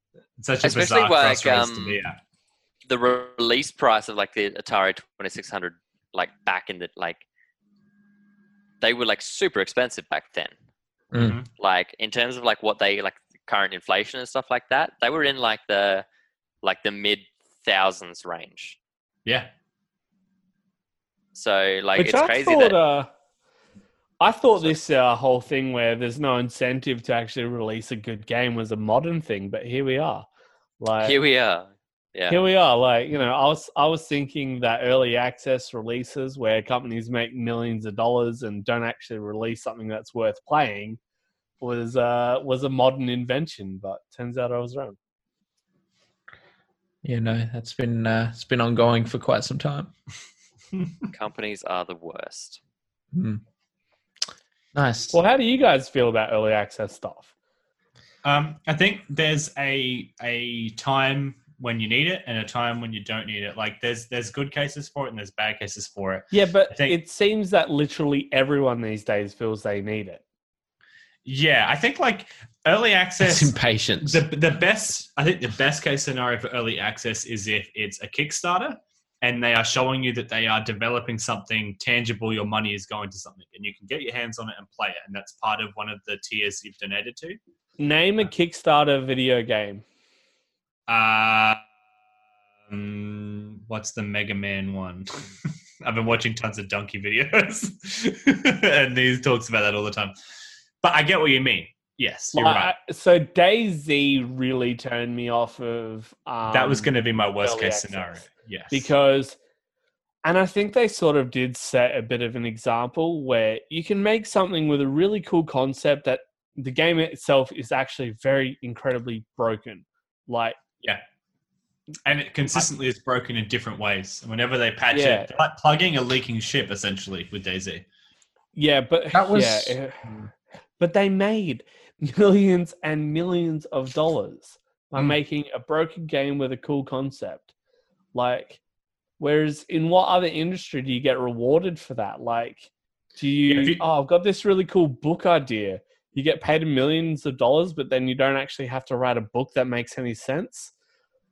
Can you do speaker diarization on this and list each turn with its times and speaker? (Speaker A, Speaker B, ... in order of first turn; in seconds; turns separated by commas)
Speaker A: 0.4-2.2, Speaker B: 0.6-2.0, Speaker B: 2.9-7.2, Speaker B: 8.8-10.5, Speaker C: 11.1-11.4, Speaker A: 11.1-11.5, Speaker B: 11.6-16.1, Speaker B: 16.6-18.8, Speaker A: 19.2-19.5, Speaker B: 21.4-22.8, Speaker D: 22.0-23.1, Speaker D: 24.2-30.3, Speaker D: 30.8-31.2, Speaker B: 31.0-32.4, Speaker D: 32.3-41.0, Speaker D: 41.6-45.0, Speaker C: 47.0-49.9, Speaker B: 51.1-52.6, Speaker C: 53.1-53.4, Speaker C: 54.8-55.2, Speaker D: 55.1-57.3, Speaker A: 58.2-67.0, Speaker D: 66.3-70.2, Speaker A: 71.2-87.4, Speaker C: 73.2-74.2, Speaker D: 87.8-89.8, Speaker A: 90.9-91.6, Speaker A: 92.7-95.1, Speaker A: 95.8-100.1, Speaker A: 100.8-102.7, Speaker D: 102.3-109.4, Speaker A: 106.5-108.9, Speaker D: 110.2-120.6, Speaker A: 122.0-127.8, Speaker D: 124.9-125.3, Speaker D: 128.6-130.1, Speaker C: 129.1-130.3, Speaker D: 130.8-137.5, Speaker D: 138.1-138.6, Speaker D: 139.2-150.7, Speaker A: 143.5-143.8